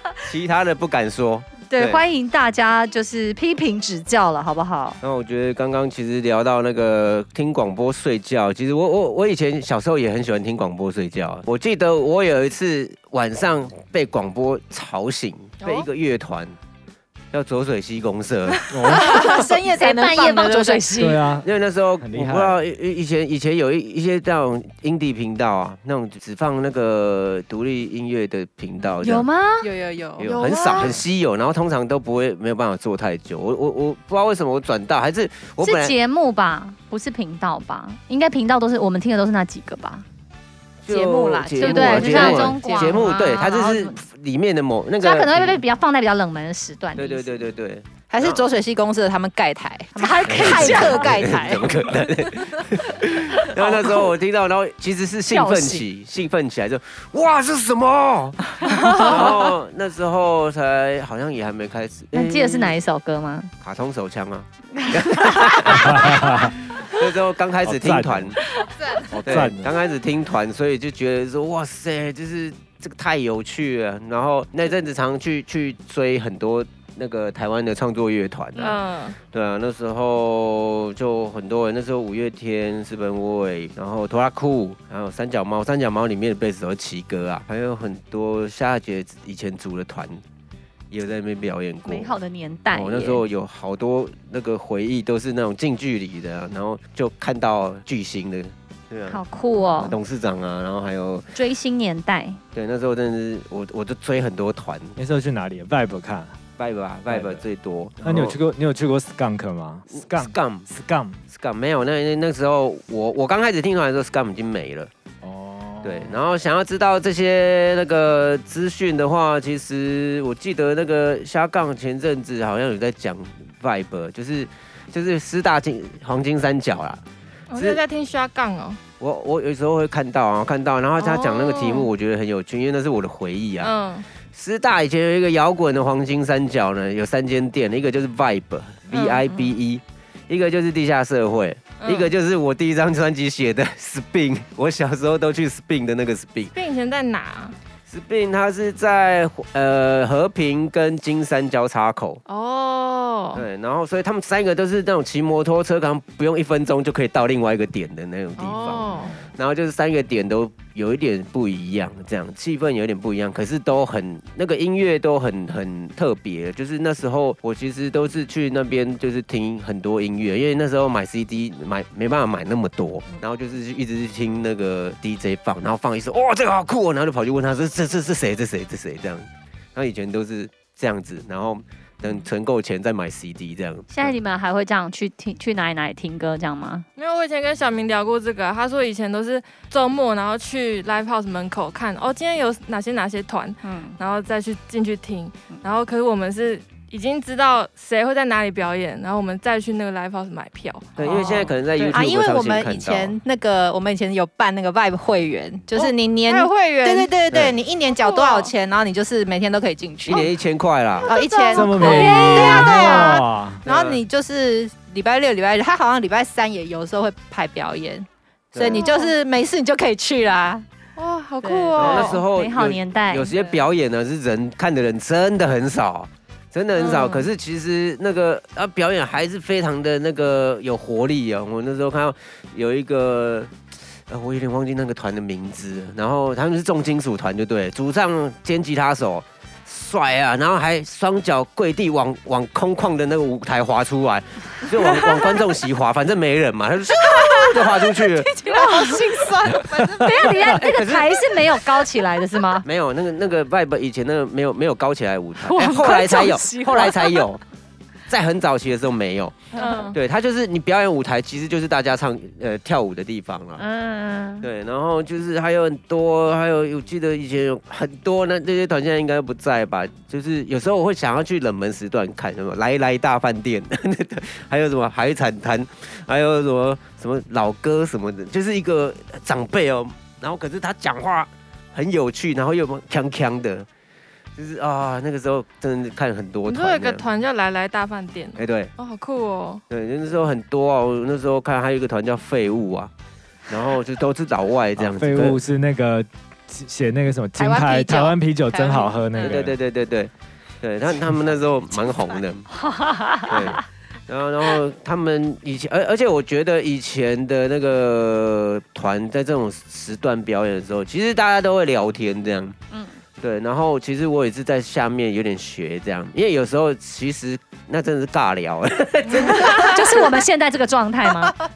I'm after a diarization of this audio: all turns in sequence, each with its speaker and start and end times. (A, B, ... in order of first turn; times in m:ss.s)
0:00.2-0:02.0 A
0:01.7-0:05.0 B
0:05.0-0:16.6 A
0:17.3-0:18.7 A
0:18.7-0:19.2 C
0:18.9-0:20.9 D
0:18.9-0:21.2 B
0:21.0-0:21.5 C
0:21.4-0:29.3 A
0:22.0-0:22.6 C
0:29.0-0:29.7 B
0:29.6-0:30.4 D
0:30.2-0:35.9 A
0:30.2-0:31.0 E
0:35.6-0:40.0 B
0:40.8-0:45.6 A
0:40.9-0:42.7 D
0:41.5-0:44.0 B
0:45.0-0:47.5 B
0:47.0-0:48.4 A
0:48.1-0:51.8 D
0:49.9-0:51.4 B
0:50.3-1:02.8 A
0:53.3-0:54.1 B
0:55.3-0:55.8 B
0:58.8-0:59.1 E
1:02.1-1:03.5 B
1:03.6-1:08.4 A
1:04.8-1:05.8 B
1:05.7-1:06.7 C
1:07.6-1:08.4 C
1:08.6-1:09.1 D
1:09.1-1:30.2 A
1:09.2-1:09.7 C
1:18.6-1:19.2 E
1:30.9-1:32.1 A
1:31.8-1:33.2 B
1:32.7-1:41.3 A
1:39.1-1:39.9 B
1:41.3-1:42.4 B
1:42.5-1:45.0 A
1:45.0-1:46.4 C
1:46.6-1:48.4 A
1:47.1-1:47.4 C
1:48.0-1:51.2 C
1:50.0-1:50.7 A
1:51.3-1:54.9 A
1:55.2-1:56.2 C
1:55.8-2:07.0 A
2:07.5-2:08.8 E
2:09.0-2:13.7 A
2:11.0-2:11.9 E
2:13.6-2:14.0 E
2:14.3-2:26.5 A
2:18.9-2:19.5 E
2:21.8-2:22.1 E
2:26.5-2:27.6 E
2:27.9-2:32.2 A
2:32.3-2:33.4 E
2:33.3-3:04.1 A
2:38.4-2:39.1 E
3:03.9-3:06.8 B
3:07.0-3:21.5 E
3:13.6-3:14.0 B
3:21.0-3:23.2 A
3:21.0-3:22.0 B
3:21.9-3:30.3 D
3:25.7-3:27.1 E
3:27.9-3:28.5 E
3:30.0-3:31.1 A
3:31.0-3:32.1 E
3:31.0-3:40.6 D
3:31.5-3:33.6 C
3:31.7-3:33.2 B
3:33.6-3:34.0 A
3:38.5-3:38.9 A
3:38.7-3:39.1 E
3:41.0-3:42.2 E
3:41.4-3:43.3 B
3:41.8-3:53.5 A
3:46.7-3:47.3 E
3:54.1-4:08.3 A
4:08.3-4:09.3 B
4:08.4-4:10.3 D
4:09.7-4:10.6 C
4:10.0-4:12.6 B
4:10.5-4:11.4 A
4:12.6-4:17.4 A
4:15.4-4:17.3 B
4:18.1-4:23.6 A
4:19.6-4:19.9 B
4:19.6-4:19.9 E
4:23.6-4:24.5 B
4:24.4-4:43.7 A
4:44.4-4:47.0 A
4:46.4-4:49.6 E
4:48.4-4:48.7 A
4:49.7-4:52.9 A
4:53.5-4:55.4 A
4:54.8-4:59.6 C
4:57.4-4:59.0 D
4:59.2-5:02.5 A
5:01.9-5:02.2 D
5:02.5-5:03.6 B
5:03.2-5:12.6 A
5:13.2-5:20.0 A
5:19.0-5:19.6 E
5:19.5-5:21.4 B